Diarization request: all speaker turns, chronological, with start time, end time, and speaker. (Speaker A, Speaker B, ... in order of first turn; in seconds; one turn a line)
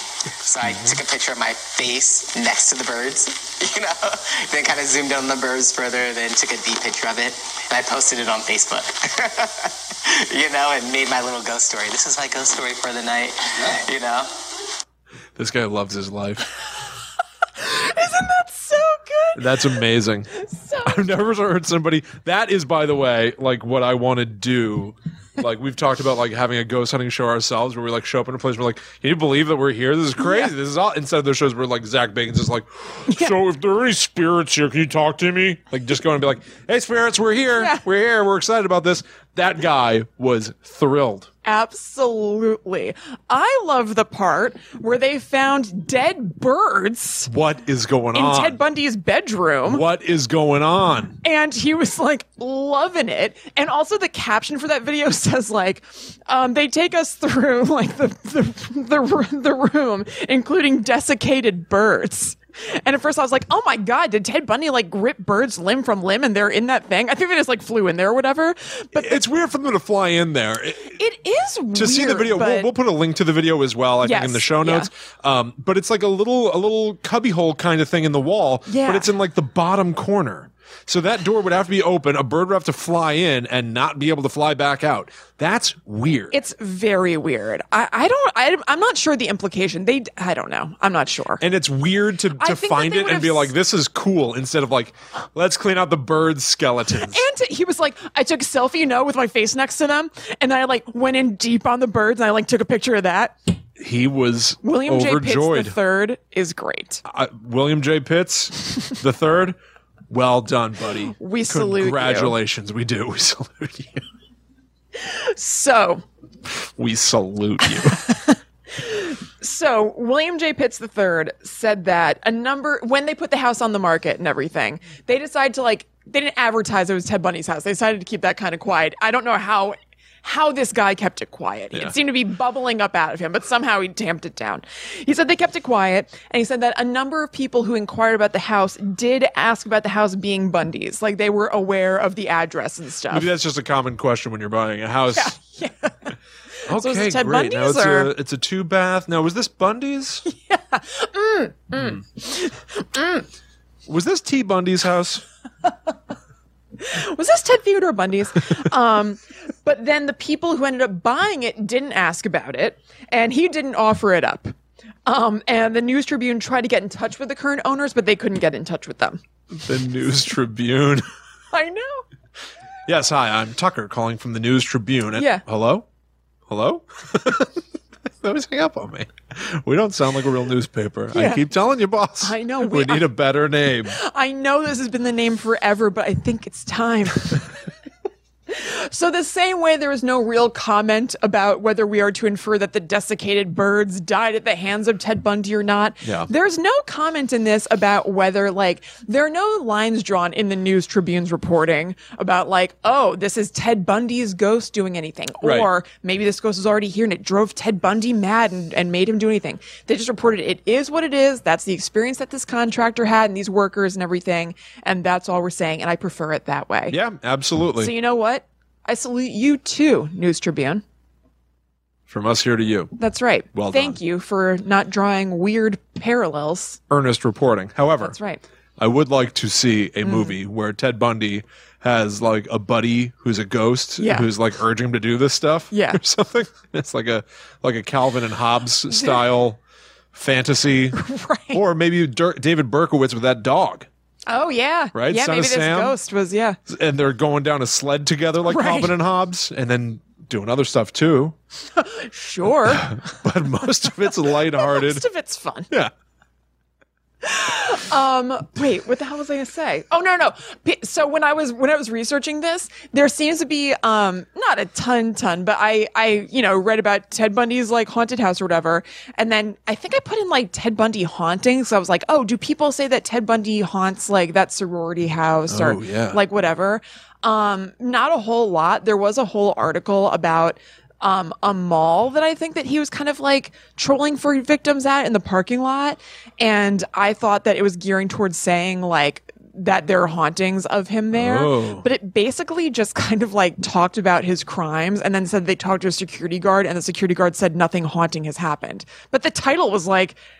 Speaker A: 0.3-14.3
Speaker B: 15.4-16.5
Speaker C: 17.6-19.6
Speaker B: 19.4-20.3
Speaker C: 20.3-21.0
Speaker B: 20.9-41.3
Speaker C: 30.2-30.5
Speaker C: 37.6-37.8
Speaker C: 41.5-47.3
Speaker B: 47.3-48.6
Speaker C: 48.1-49.8
Speaker B: 49.7-51.2
Speaker C: 51.2-69.2
Speaker B: 69.0-71.0
Speaker C: 70.9-72.7
Speaker B: 71.7-86.4
Speaker C: 74.0-74.9
Speaker C: 78.7-79.1
Speaker C: 86.3-91.4
Speaker B: 91.4-97.2
Speaker C: 92.4-93.5
Speaker C: 97.0-103.4
Speaker B: 103.8-105.8
Speaker C: 104.6-107.0
Speaker B: 107.1-109.6
Speaker B: 110.1-114.0
Speaker C: 111.2-112.3
Speaker C: 115.0-116.0
Speaker B: 116.5-118.1
Speaker C: 117.6-143.3
Speaker B: 143.1-145.4
Speaker C: 145.1-146.2
Speaker C: 146.7-148.1
Speaker B: 146.7-150.2
Speaker C: 150.2-153.3
Speaker B: 153.9-155.2
Speaker C: 156.8-164.5
Speaker C: 165.1-169.2
Speaker B: 169.5-171.1
Speaker C: 171.5-172.1
Speaker B: 172.9-175.9
Speaker C: 175.2-175.4
Speaker B: 176.5-177.6
Speaker B: 178.2-184.0
Speaker C: 181.1-181.4
Speaker C: 182.2-183.1
Speaker C: 183.9-187.6
Speaker C: 188.5-217.0
Speaker B: 196.0-196.3
Speaker B: 205.4-205.7
Speaker B: 216.9-217.9
Speaker C: 217.8-220.8
Speaker B: 222.1-222.9
Speaker C: 223.0-226.8
Speaker B: 223.5-224.0
Speaker B: 226.9-228.2
Speaker C: 228.0-228.4
Speaker B: 228.8-239.6
Speaker C: 230.0-230.3
Speaker C: 234.0-234.3
Speaker C: 235.7-236.0
Speaker C: 238.9-239.2
Speaker B: 240.1-241.0
Speaker C: 240.9-241.6
Speaker B: 241.5-243.9
Speaker C: 244.3-246.6
Speaker B: 244.9-246.0
Speaker B: 246.7-251.3
Speaker C: 248.5-248.9
Speaker C: 251.7-255.7
Speaker B: 252.6-255.0
Speaker C: 257.2-300.2
Speaker B: 275.5-276.2
Speaker B: 291.1-291.9